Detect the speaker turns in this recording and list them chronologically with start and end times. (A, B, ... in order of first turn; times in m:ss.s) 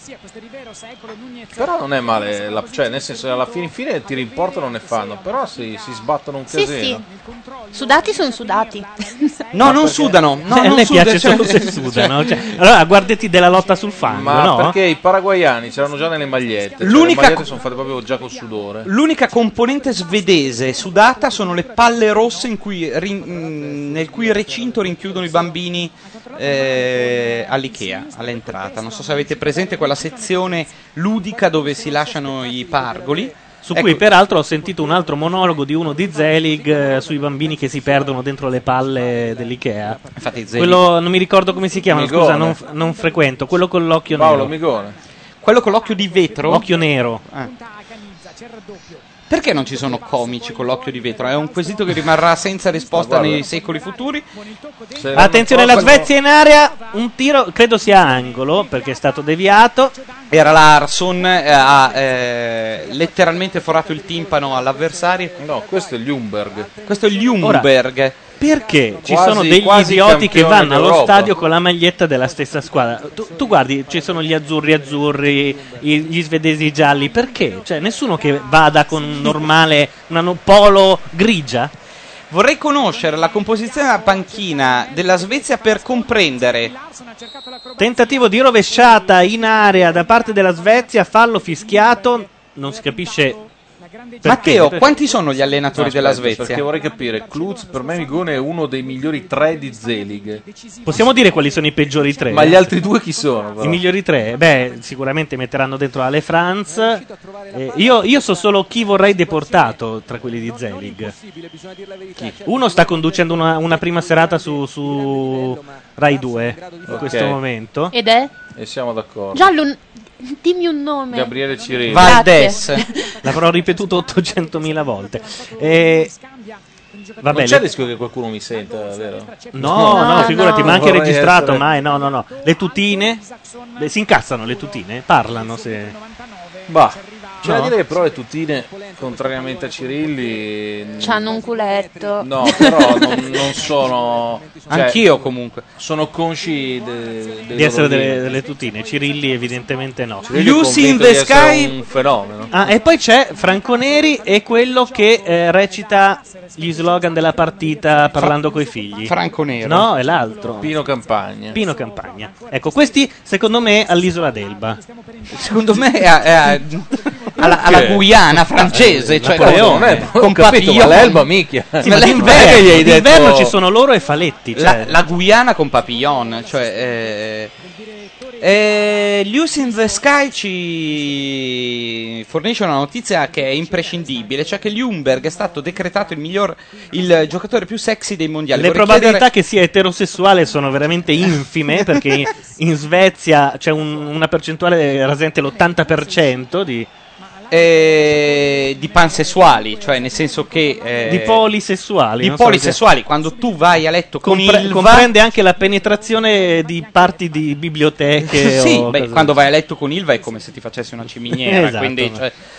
0:01.5-0:07.0 A
0:06.5-0:07.0 B
0:07.7-0:09.3 B
0:09.5-0:12.3 C
0:09.6-0:10.2 A
0:10.5-0:14.8 D
0:14.1-0:18.9 A
0:16.8-0:17.4 C
0:18.8-0:34.0 C
0:33.6-0:40.0 D
0:40.2-0:40.8 C
0:40.6-0:44.5 D
0:41.9-0:42.6 A
0:44.1-0:45.0 A
0:45.4-0:46.7 C
0:46.5-0:47.2 D
0:47.2-0:47.5 C
0:49.3-0:54.2 C
0:52.9-0:53.4 A
0:54.9-0:56.1 A
0:55.1-0:59.9 D
1:00.3-1:05.4 C
1:05.4-1:06.7 A
1:06.8-1:08.2 C
1:07.4-1:07.7 D
1:08.4-1:21.7 D
1:09.0-1:11.4 A
1:22.3-1:26.7 C
1:27.8-1:33.4 D
1:34.2-1:34.9 D
1:34.2-1:36.6 C
1:35.7-1:41.0 A
1:40.8-1:42.7 D
1:42.3-1:43.8 A
1:43.6-1:51.1 D
1:52.4-1:58.0 D
1:56.8-1:57.4 A
1:57.9-1:58.3 B
1:58.5-1:59.5 A
1:59.3-2:01.3 B
2:01.1-2:02.3 A
2:01.9-2:02.8 C
2:01.9-2:03.2 B
2:03.2-2:06.1 D
2:07.2-2:07.6 D
2:07.3-2:11.7 A
2:09.6-2:13.2 D
2:09.9-2:10.8 B
2:13.8-2:16.0 D
2:16.7-2:21.2 A
2:17.4-2:17.7 D
2:21.0-2:23.4 B
2:22.2-2:25.0 A
2:24.7-2:25.6 C
2:25.8-2:28.4 A
2:27.5-2:30.3 D
2:30.2-2:32.7 A
2:30.3-2:31.7 C
2:32.5-2:40.7 D
2:39.1-2:39.9 C
2:40.6-2:41.6 A
2:41.5-2:44.8 D
2:45.3-2:52.7 C
2:47.4-2:53.6 A
2:49.2-2:50.1 D
2:51.8-2:55.0 D
2:54.6-2:57.5 C
2:58.4-3:09.3 C
3:08.5-3:16.9 D
3:17.5-3:21.5 C
3:21.1-3:22.8 D
3:22.2-3:25.1 C
3:24.2-3:29.3 D
3:28.2-3:32.3 C
3:31.3-3:32.2 D